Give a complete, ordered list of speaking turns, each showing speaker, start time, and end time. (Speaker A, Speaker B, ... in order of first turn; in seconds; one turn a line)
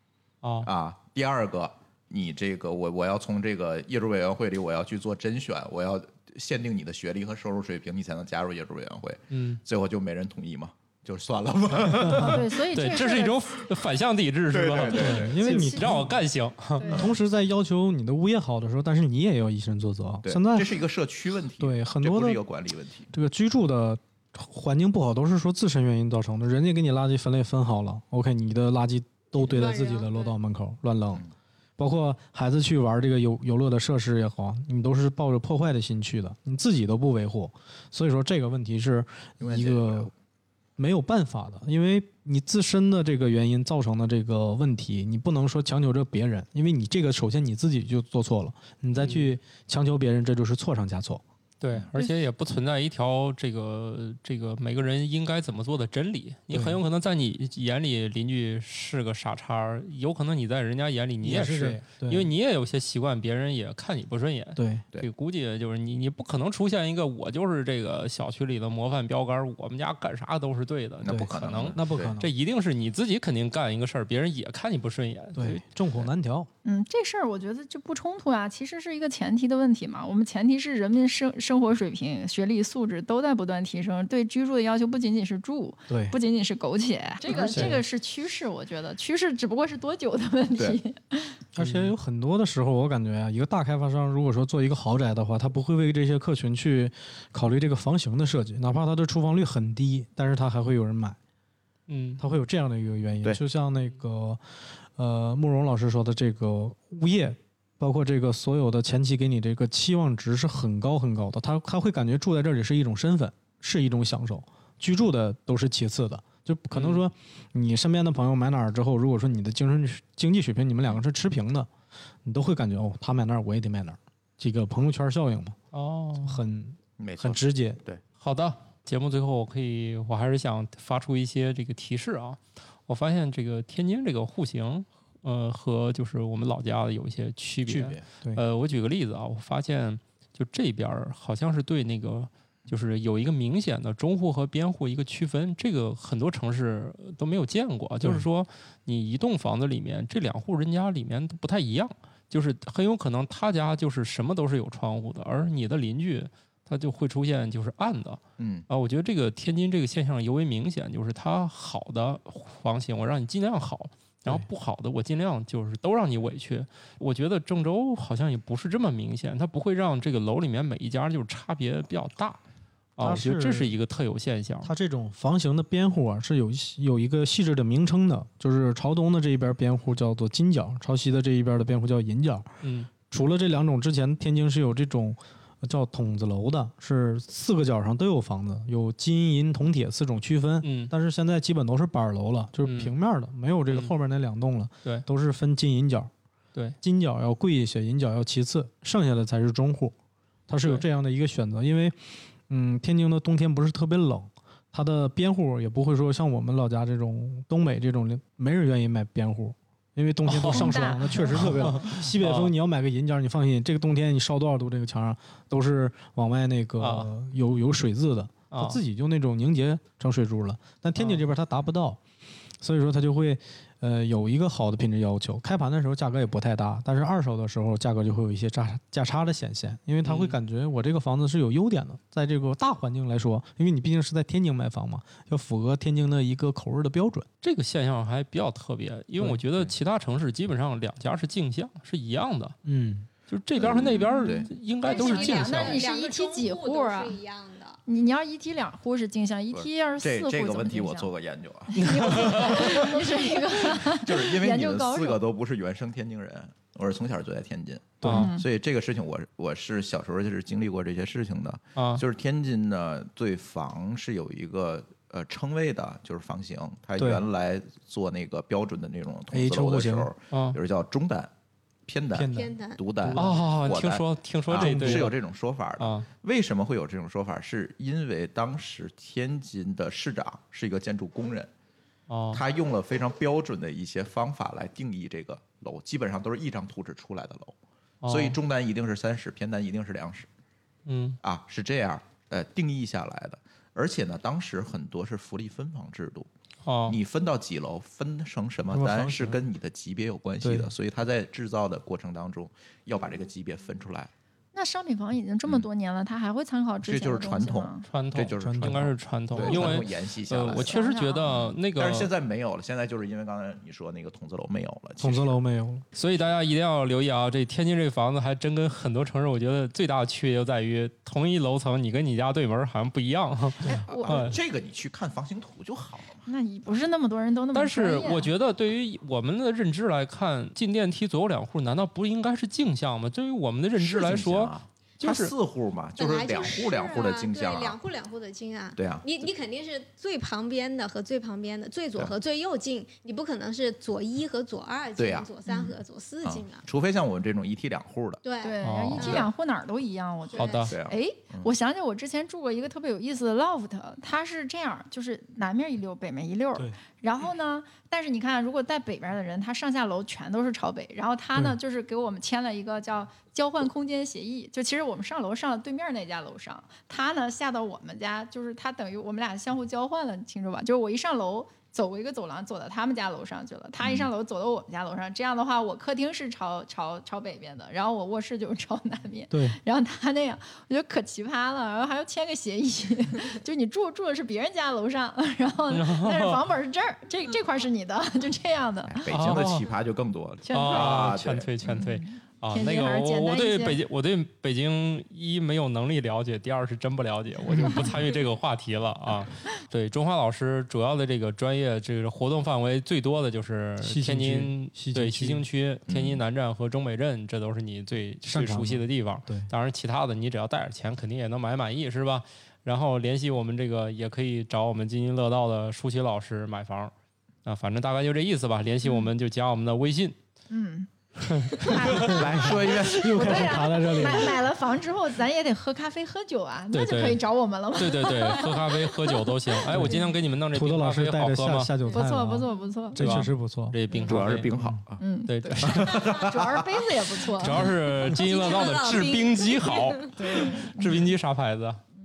Speaker A: 0.4-0.7
Speaker B: 0.6-12.4
Speaker A: 9.3-9.6
Speaker C: 12.1-12.4
Speaker D: 12.2-13.4
Speaker A: 12.7-16.9
Speaker B: 14.5-15.3
Speaker C: 14.9-16.1
Speaker D: 15.3-16.1
Speaker D: 16.8-17.1
Speaker B: 16.9-17.1
Speaker C: 16.9-20.8
Speaker B: 20.2-23.1
Speaker C: 21.6-22.4
Speaker C: 23.1-31.2
Speaker E: 29.4-30.3
Speaker C: 31.8-40.1
Speaker B: 39.4-40.1
Speaker C: 40.8-51.2
Speaker A: 49.0-49.3
Speaker A: 51.6-75.6
Speaker C: 56.5-56.8
Speaker C: 61.2-62.3
Speaker C: 64.5-64.8
Speaker B: 71.0-72.1
Speaker C: 71.0-72.3
Speaker C: 75.3-76.5
Speaker D: 76.6-91.4
Speaker C: 85.9-86.2
Speaker C: 87.3-87.8
Speaker A: 87.3-87.8
Speaker C: 91.5-101.2
Speaker A: 91.6-91.9
Speaker A: 101.9-102.2
Speaker C: 102.2-121.7
Speaker A: 116.7-117.0
Speaker C: 122.2-125.6
Speaker A: 125.7-126.4
Speaker C: 126.2-127.8
Speaker B: 127.0-128.0
Speaker A: 128.2-172.4
Speaker B: 137.7-138.1
Speaker B: 158.4-158.7
Speaker A: 173.0-174.7
Speaker C: 173.0-173.7
Speaker C: 174.6-182.5
Speaker A: 182.6-182.9
Speaker C: 183.1-196.1
Speaker A: 190.6-190.9
Speaker A: 192.6-192.9
Speaker C: 196.8-199.9
Speaker C: 200.5-222.0
Speaker A: 210.3-212.5
Speaker D: 210.4-211.9
Speaker A: 216.8-217.1
Speaker A: 218.5-218.8
Speaker A: 220.9-221.3
Speaker C: 222.6-237.3
Speaker A: 230.0-230.4
Speaker A: 237.4-242.6
Speaker C: 242.6-243.1
Speaker A: 243.3-245.8
Speaker B: 243.6-244.5
Speaker D: 244.1-247.2
Speaker E: 244.8-247.8
Speaker D: 247.9-251.1
Speaker B: 249.5-271.3
Speaker D: 251.7-255.2
Speaker A: 251.7-252.8
Speaker C: 258.0-258.3
Speaker A: 258.0-258.3
Speaker D: 258.1-258.4
Speaker A: 261.8-262.0
Speaker C: 267.0-267.2
Speaker C: 269.3-270.1
Speaker A: 270.3-270.6
Speaker B: 271.9-281.5
Speaker C: 272.1-273.8
Speaker E: 272.3-272.8
Speaker A: 273.1-275.1
Speaker C: 274.5-275.1
Speaker A: 275.8-276.1
Speaker A: 282.1-282.4
Speaker B: 282.3-287.6
Speaker A: 288.0-288.4
Speaker B: 288.1-290.3
Speaker A: 290.9-291.2
Speaker B: 291.2-296.3
Speaker A: 296.6-297.0
Speaker B: 296.9-304.1
Speaker C: 298.7-299.4
Speaker C: 300.4-300.7
Speaker D: 304.5-307.9
Speaker B: 306.8-310.7
Speaker A: 307.9-312.1
Speaker C: 308.3-308.8
Speaker D: 309.4-309.8
Speaker D: 310.6-311.4
Speaker B: 311.3-315.4
Speaker C: 315.0-315.8
Speaker A: 315.9-324.4
Speaker D: 323.6-324.3
Speaker B: 323.9-326.2
Speaker D: 326.3-328.3
Speaker A: 327.5-335.3
Speaker B: 333.8-337.8
Speaker E: 336.0-346.6
Speaker B: 338.8-339.3
Speaker B: 345.0-345.3
Speaker D: 345.5-345.7
Speaker B: 346.2-348.2
Speaker E: 348.2-349.3
Speaker D: 348.4-389.4
Speaker A: 348.6-349.2
Speaker B: 349.0-349.3
Speaker E: 350.3-350.7
Speaker A: 350.4-350.7
Speaker B: 350.7-351.5
Speaker B: 373.8-374.1
Speaker C: 379.3-379.6
Speaker A: 385.7-386.4
Speaker B: 388.8-391.9
Speaker A: 389.1-389.6
Speaker D: 390.5-391.2
Speaker A: 390.5-416.9
Speaker D: 391.8-393.8
Speaker C: 403.8-405.4
Speaker B: 405.9-406.2
Speaker C: 408.2-409.5
Speaker A: 417.4-420.2
Speaker D: 420.5-420.9
Speaker A: 421.2-422.2
Speaker D: 421.5-430.1
Speaker C: 421.9-424.4
Speaker B: 422.2-423.6
Speaker A: 426.7-431.7
Speaker C: 429.7-434.8
Speaker D: 431.9-433.2
Speaker A: 432.9-434.5
Speaker B: 434.0-436.8
Speaker D: 435.0-437.7
Speaker A: 435.2-435.8
Speaker A: 437.4-441.8
Speaker E: 438.1-440.1
Speaker D: 440.1-441.0